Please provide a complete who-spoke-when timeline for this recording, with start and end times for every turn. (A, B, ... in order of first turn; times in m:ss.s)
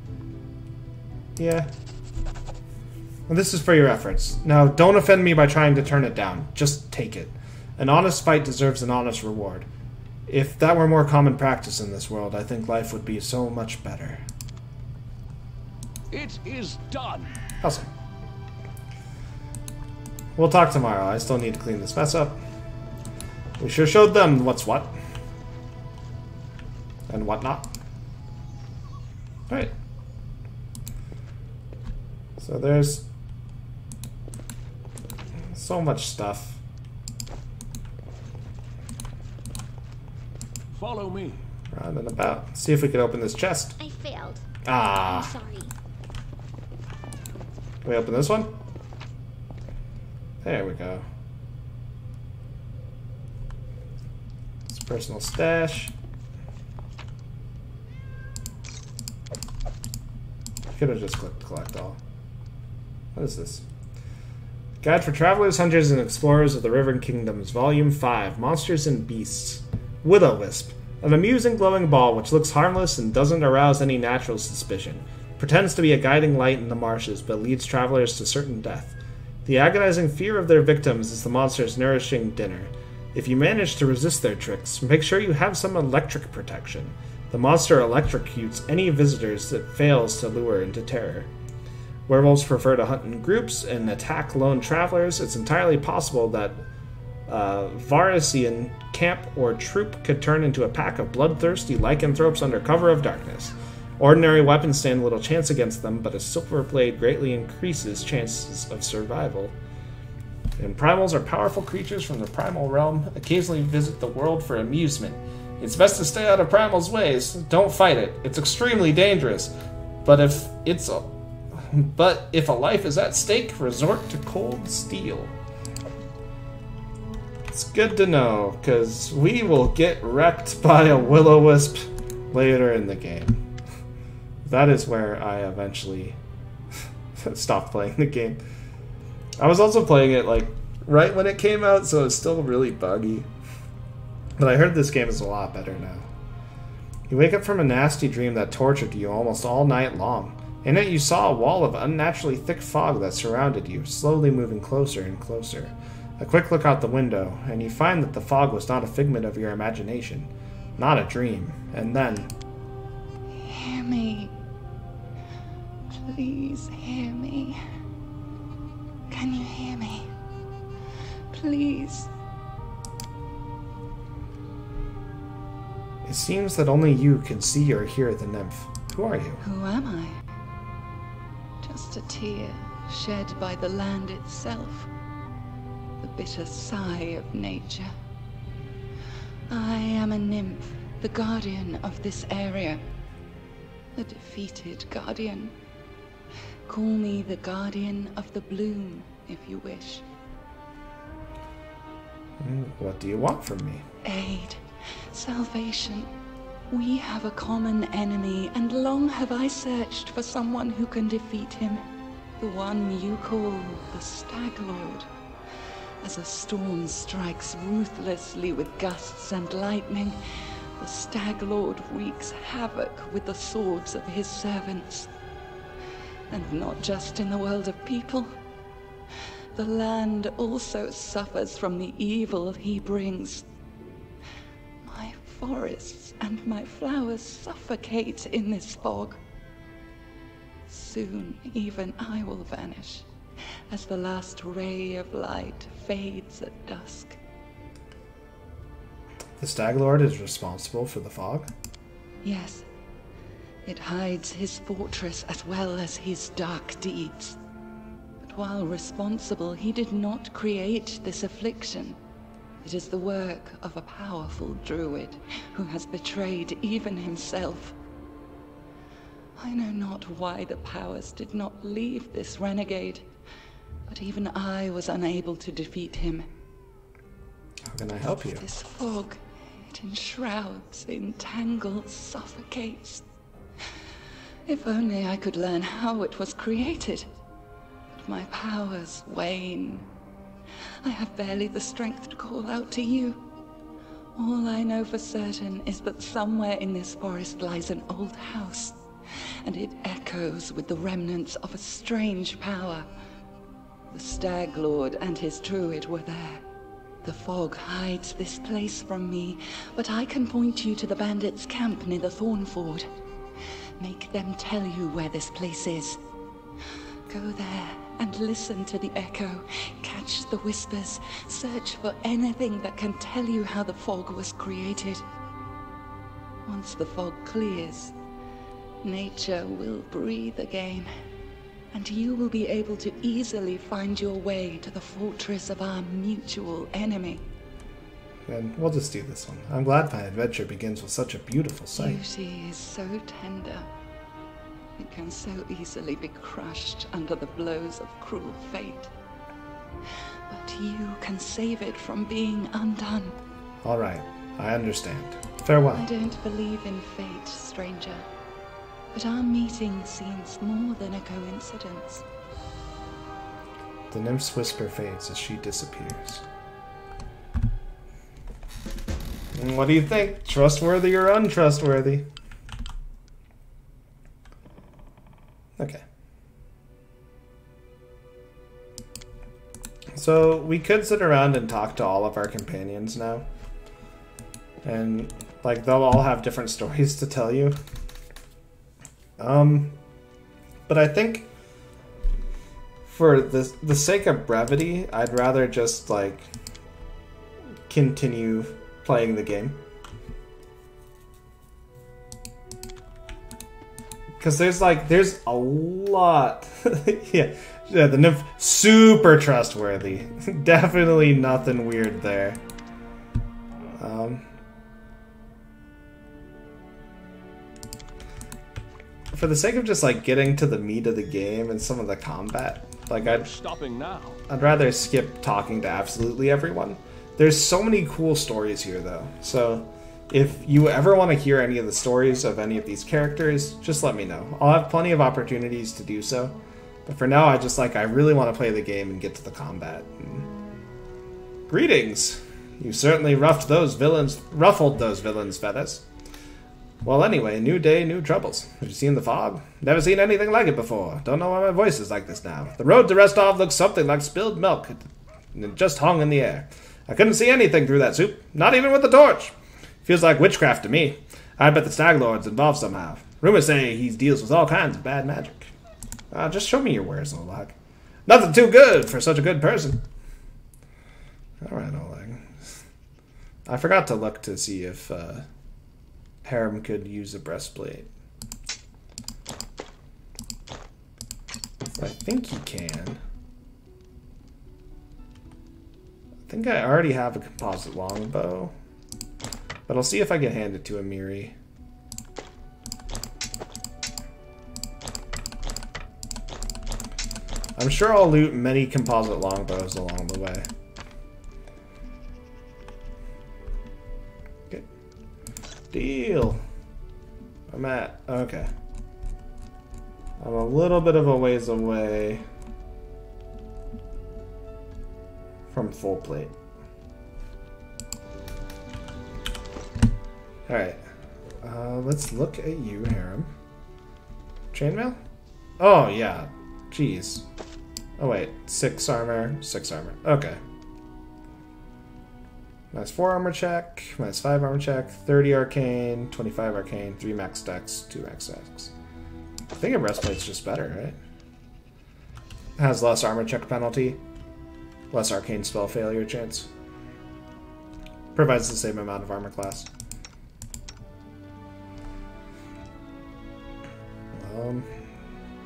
0:01.4-0:01.7 A
0:03.3-0:09.7 A
0:10.3-0:14.2 A
0:16.1-0:17.3 B
0:17.6-0:17.9 A
0:20.4-0:22.4 A
0:23.6-0:24.9 A
0:27.1-0:27.7 A
0:32.4-0:33.1 A
0:35.5-0:36.6 A
0:40.7-0:41.4 B
0:41.7-0:43.8 A
0:43.8-0:45.7 C
0:44.6-0:45.3 A
0:47.8-0:48.5 A
0:50.4-0:51.0 A
0:54.7-0:55.9 A
1:00.7-1:02.0 A
1:03.1-1:03.6 A
1:04.8-1:31.3 A
1:32.1-1:36.6 A
1:37.3-1:49.5 A
1:50.6-2:05.3 A
2:07.5-2:13.4 A
2:14.4-2:16.2 A
2:17.2-2:18.4 A
2:19.4-2:23.3 A
2:24.4-2:26.1 A
2:27.1-2:42.3 A
2:43.3-2:44.4 D
2:45.9-2:47.6 D
2:49.1-2:50.1 D
2:51.3-2:52.1 D
2:56.0-2:59.4 A
2:59.4-3:00.3 D
3:01.6-3:04.9 D
3:06.0-3:07.9 D
3:09.5-3:12.8 D
3:13.9-3:15.5 D
3:16.7-3:20.0 D
3:22.4-3:23.8 A
3:24.0-3:26.1 D
3:26.7-3:31.8 D
3:32.4-3:35.1 D
3:36.0-3:40.2 D
3:40.8-3:45.1 D
3:46.3-3:48.3 D
3:49.5-3:53.4 D
3:54.8-3:59.2 D
4:00.7-4:03.1 D
4:03.7-4:07.2 D
4:09.4-4:11.5 A
4:12.2-4:12.6 D
4:13.6-4:17.4 D
4:18.2-4:22.0 D
4:22.6-4:27.7 D
4:29.4-4:33.1 D
4:33.9-4:36.3 D
4:37.7-4:38.4 A
4:38.4-4:43.0 D
4:44.5-4:47.1 D
4:47.9-4:49.8 D
4:50.8-4:53.2 D
4:54.2-4:58.8 D
4:59.4-5:02.9 D
5:03.9-5:06.4 D
5:07.0-5:12.9 D
5:13.8-5:16.0 D
5:17.1-5:25.0 D
5:26.4-5:27.9 D
5:28.8-5:30.9 D
5:31.7-5:37.2 D
5:38.3-5:42.0 A
5:41.8-5:43.7 D
5:44.8-5:48.9 D
5:50.3-5:53.2 D
5:53.6-5:55.9 A
5:55.7-5:58.0 D
5:58.9-6:02.0 D
6:03.9-6:06.2 A
6:09.3-6:12.1 A
6:15.6-6:15.8 A
6:19.9-6:23.2 A
6:24.6-6:27.6 A
6:29.2-6:29.8 A
6:30.7-6:31.3 A
6:32.9-6:36.3 A
6:37.7-6:39.6 A
6:44.2-6:52.4 A
6:53.8-6:54.2 A
6:59.1-7:03.3 A
7:03.0-7:04.2 B
7:04.3-7:20.3 A
7:21.5-7:25.8 A
7:26.8-7:45.5 A
7:46.1-7:47.5 A
7:48.0-7:49.8 A
7:51.4-7:52.4 A
7:53.4-7:55.3 A
7:56.2-7:57.9 A
8:01.7-8:03.0 A
8:06.3-8:08.5 A
8:09.7-8:11.3 A
8:17.6-8:20.5 A
8:25.7-8:26.4 A
8:27.5-8:28.5 A
8:30.2-8:32.2 A
8:35.5-8:36.3 A
8:40.5-8:40.8 A
8:41.4-8:43.3 A
8:44.5-8:45.0 A
8:45.6-8:47.2 A
8:48.0-8:50.4 A
8:52.7-8:58.7 A
8:59.5-9:01.0 A
9:02.6-9:04.0 A
9:04.9-9:06.5 A
9:08.1-9:09.7 A
9:14.2-9:14.7 A